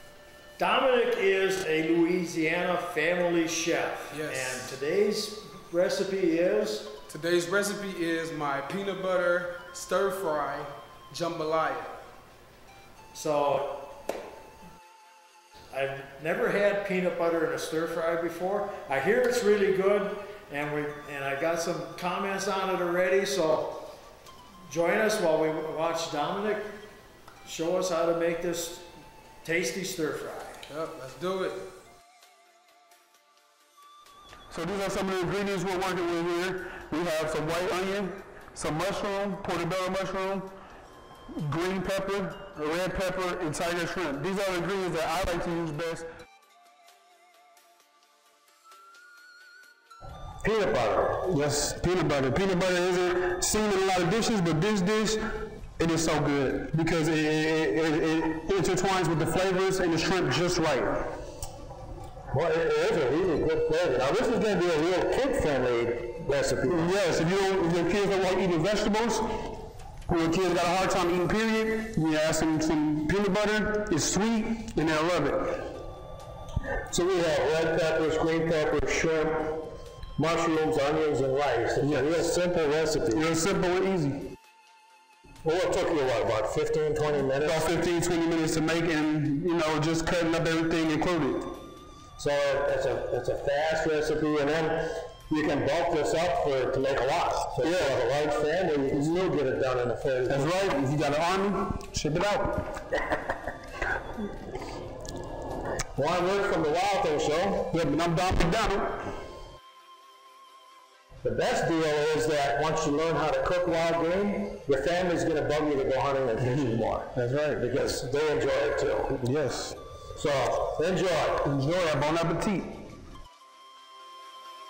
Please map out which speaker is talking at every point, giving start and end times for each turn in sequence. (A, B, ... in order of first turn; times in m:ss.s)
0:04.1-0:04.8 A
0:04.3-0:05.0 B
0:07.1-0:12.0 A
0:13.1-0:13.6 B
0:15.7-0:18.0 B
0:18.6-0:21.5 B
0:22.1-0:22.4 B
0:24.7-0:26.2 B
0:29.4-0:30.1 B
0:30.7-0:31.7 A
0:34.5-0:40.5 C
0:41.3-0:46.1 C
0:50.4-0:51.2 D
0:51.2-1:01.1 C
1:02.3-1:06.9 D
1:06.6-1:15.7 C
1:16.9-1:23.2 D
1:21.8-1:22.3 C
1:23.1-1:24.3 C
1:25.4-1:27.6 D
1:27.2-1:31.6 C
1:32.2-1:40.5 D
1:37.6-1:38.1 C
1:38.9-1:39.2 C
1:40.3-1:42.8 C
1:46.0-1:47.7 D
1:47.7-1:49.2 C
1:51.2-1:59.1 D
1:56.4-1:57.6 C
1:59.1-1:59.8 C
2:00.1-2:01.5 D
2:01.4-2:02.9 C